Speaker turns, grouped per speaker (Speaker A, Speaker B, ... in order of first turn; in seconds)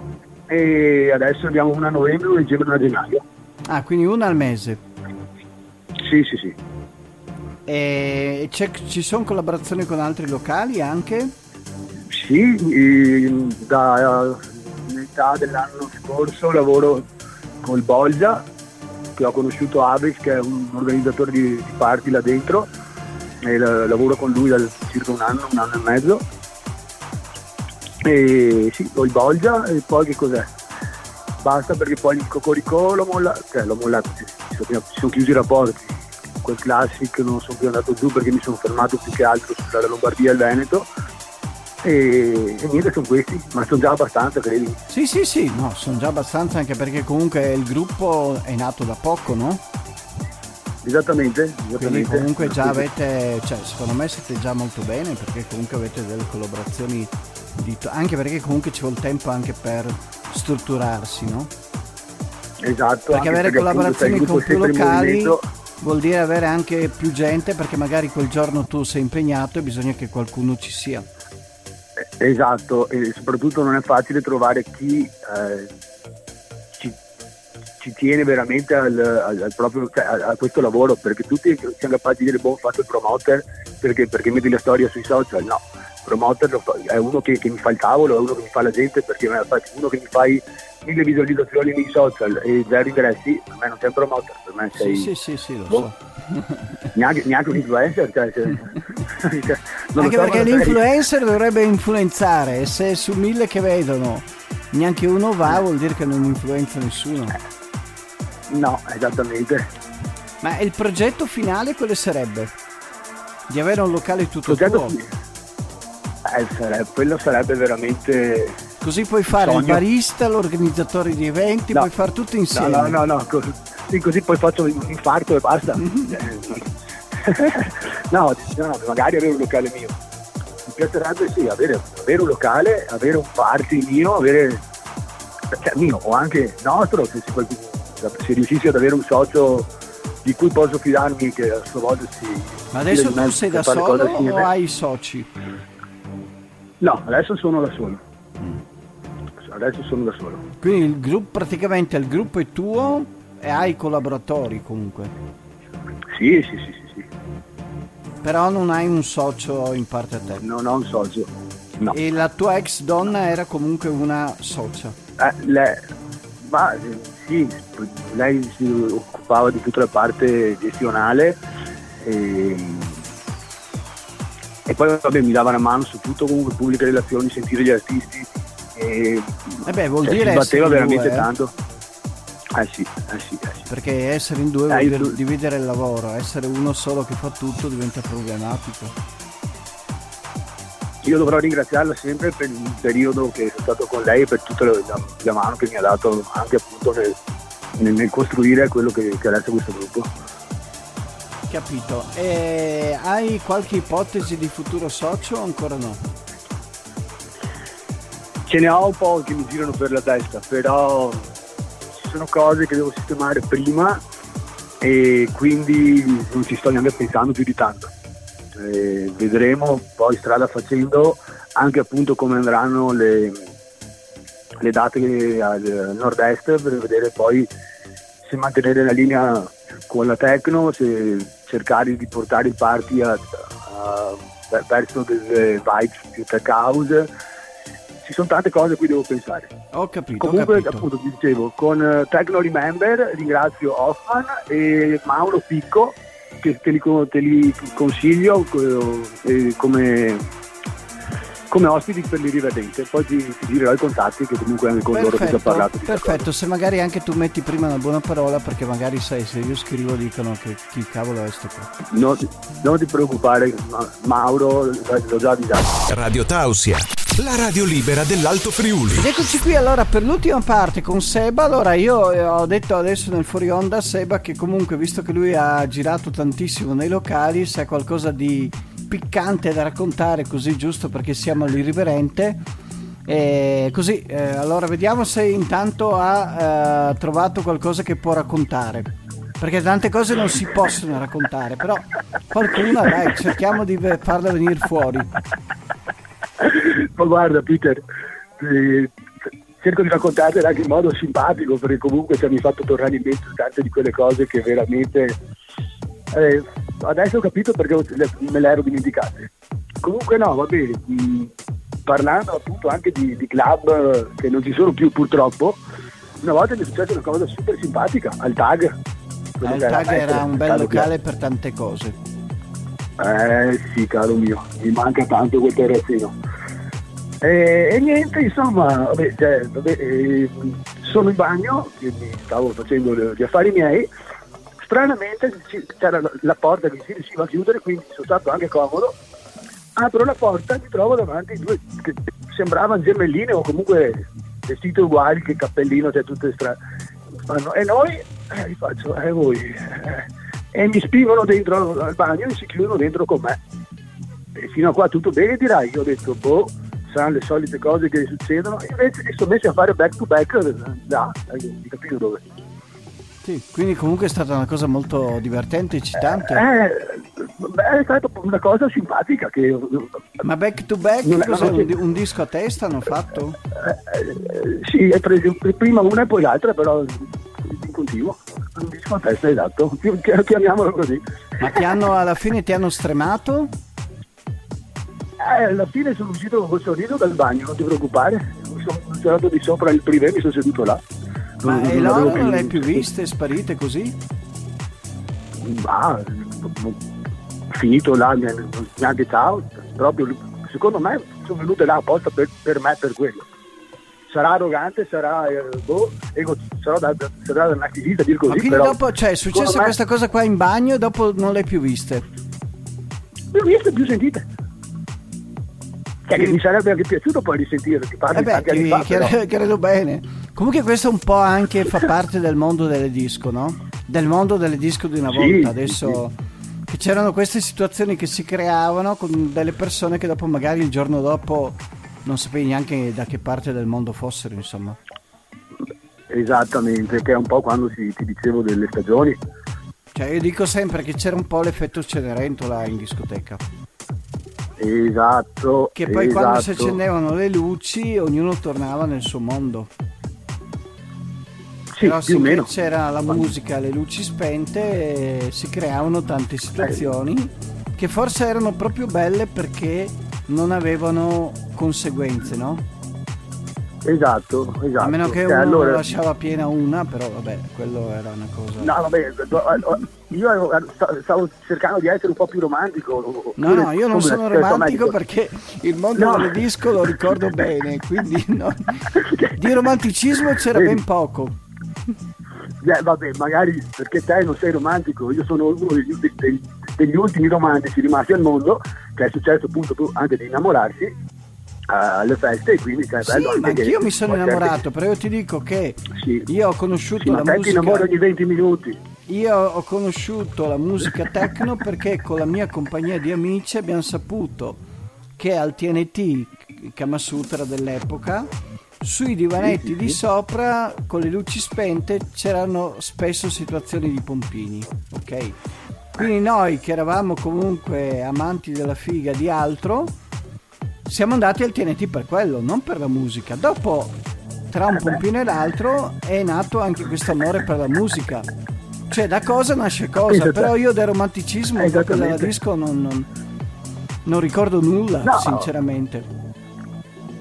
Speaker A: 0.5-3.2, 6.0-6.6, 12.1-17.1, 17.6-18.4, 19.1-22.7, 23.4-26.2, 28.0-30.5, 31.4-40.9, 41.8-44.8, 50.8-52.9, 62.6-65.4, 72.0-75.7, 77.8-95.1, 96.9-100.8, 108.5-109.7, 114.5-115.1, 116.2-118.6, 119.3-119.8, 122.5-130.0, 130.7-134.6, 135.5-139.7, 140.2-144.5, 146.8-148.0, 149.4-150.4, 156.1-157.1, 160.4-162.0, 165.2-165.8, 166.4-171.4, 172.0-173.0, 174.7-181.5, 182.5-183.7, 184.7-185.2, 191.0-197.2, 197.8-200.1, 208.5-211.3, 211.9-214.0, 214.8-217.9, 218.5-223.4, 224.6-227.5, 228.2-237.1, 238.0-239.5, 240.2-250.2, 251.5-256.3, 261.9-265.8, 296.4-297.8, 298.4-298.9, 299.6-305.2, 306.1-309.3, 309.8-311.3, 311.9-315.6, 316.2-318.8, 319.4-320.9, 323.0-326.1, 327.2-333.9, 334.6-338.9, 339.8-346.6, 347.2-353.4, 354.3-362.2, 366.1-370.0, 371.0-371.7, 373.5-381.0, 385.2-390.8, 391.4-392.9, 395.4-396.8, 397.5-403.2, 404.1-408.8, 409.3-409.7, 413.3-414.2, 416.1-419.1, 425.1-426.0, 436.1-439.2, 444.6-446.8, 451.7-452.5, 463.8-465.9, 468.6-475.0, 475.9-477.1, 479.0-479.3, 480.5-480.8, 482.6-490.9, 491.7-494.6, 495.9-496.3, 497.0-498.8, 509.4-510.0, 530.0-530.5, 531.5-532.4, 535.0-535.5
Speaker B: 3.7-4.8, 7.7-11.3, 44.9-49.6, 51.8-61.5, 63.1-71.0, 94.8-96.7, 100.0-107.4, 110.4-112.5, 113.5-115.0, 118.8-123.0, 125.9-126.1, 142.7-145.3, 150.6-155.1, 158.2-160.4, 161.9-164.9, 179.6-181.3, 183.7-188.9, 201.5-206.0, 239.7-240.8, 254.9-261.7, 269.0-282.4, 283.1-288.9, 289.4-295.1, 319.4-321.9, 363.2-366.4, 370.2-373.4, 381.4-383.5, 391.4-393.9, 408.3-412.0, 418.1-426.1, 426.7-434.8, 439.9-443.4, 445.8-449.7, 451.8-462.6, 464.8-468.7, 473.4-481.4, 493.0-497.9, 499.1-504.6, 505.2-515.4, 515.9-519.9, 520.9-524.0, 524.5-528.3, 528.9-533.1, 534.0-536.0
Speaker C: 265.9-269.1